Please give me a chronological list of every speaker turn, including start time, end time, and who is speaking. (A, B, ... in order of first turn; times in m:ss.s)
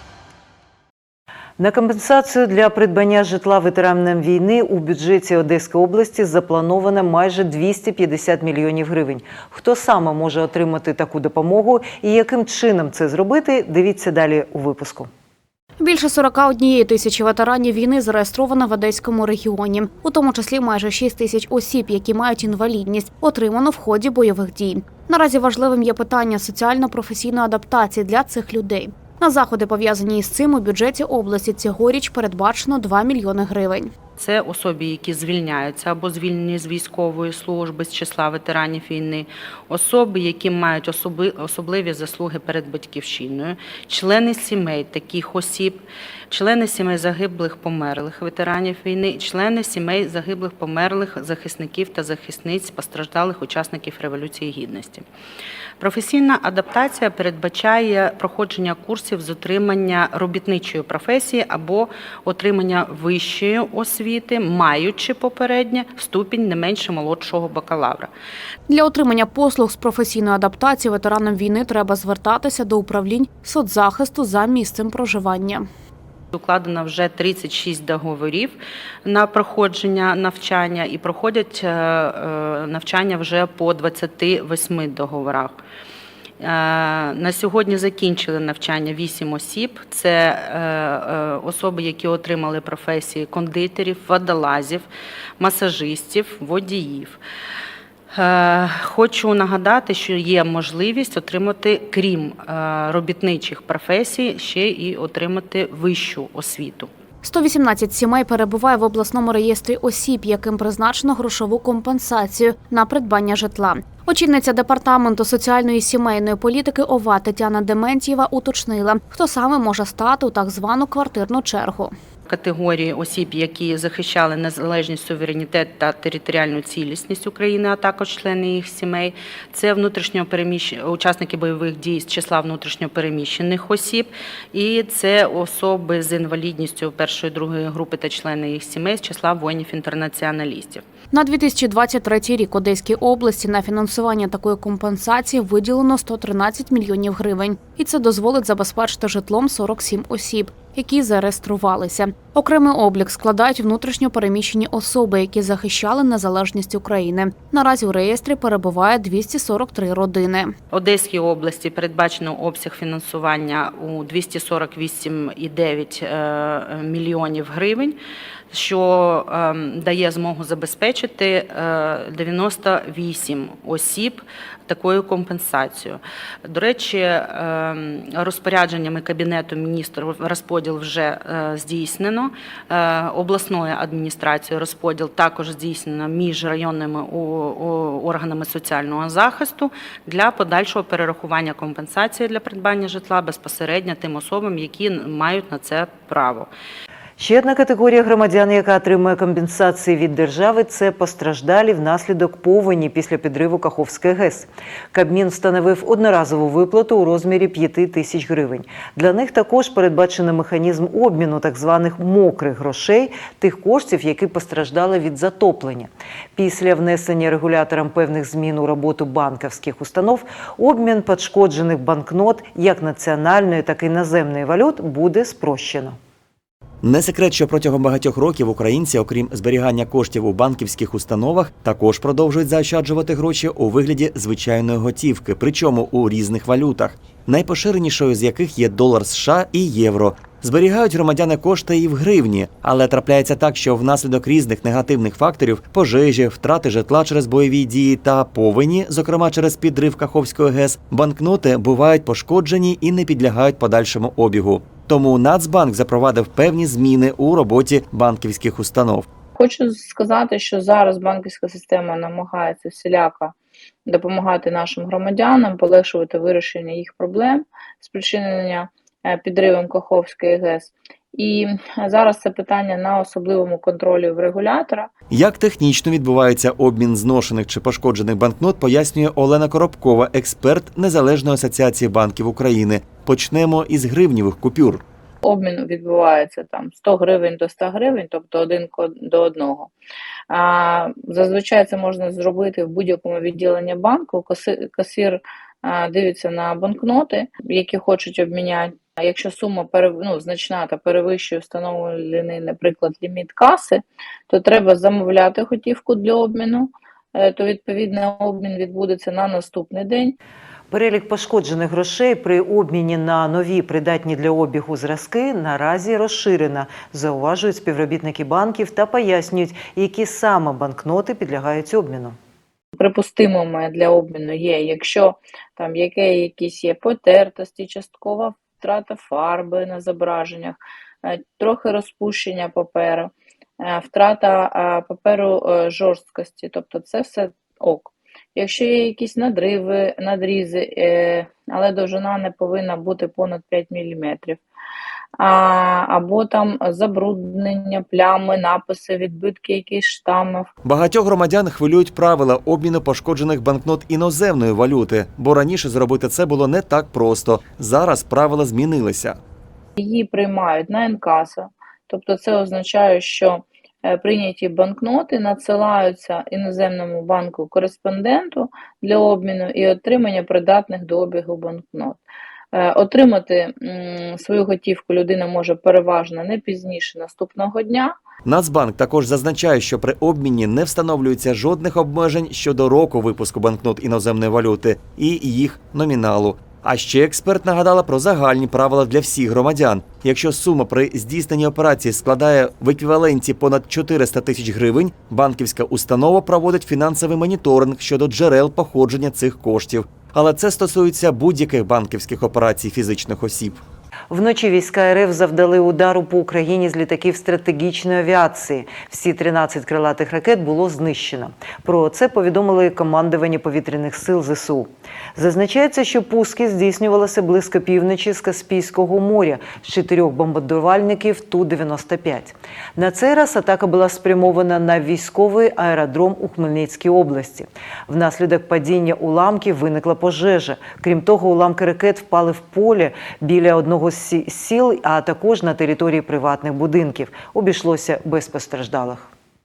0:01.6-0:15.1 A
0:15.8-0:33.9 B
0:34.2-0:55.0 C
0:55.8-1:08.1 C
1:08.7-1:15.7 B
1:16.3-1:25.6 C
1:26.4-1:34.8 C
1:35.4-1:37.2 C
1:38.1-1:46.9 C
1:47.2-2:01.9 B
2:02.3-2:20.8 C
2:21.1-2:40.6 B
2:40.7-2:48.0 C
2:48.5-3:16.5 C
3:17.2-3:46.0 A
3:46.8-4:19.0 D
4:19.4-4:23.3 E
4:23.9-4:34.9 E
4:35.1-4:44.8 D
4:45.2-4:49.7 E
4:50.3-5:10.2 E
5:10.7-5:22.2 A
5:22.8-5:44.4 E
5:45.2-5:50.5 E
5:50.6-5:59.2 D
5:59.8-6:12.0 E
6:12.5-6:18.0 E
6:18.2-6:43.6 D
6:44.1-7:19.1 A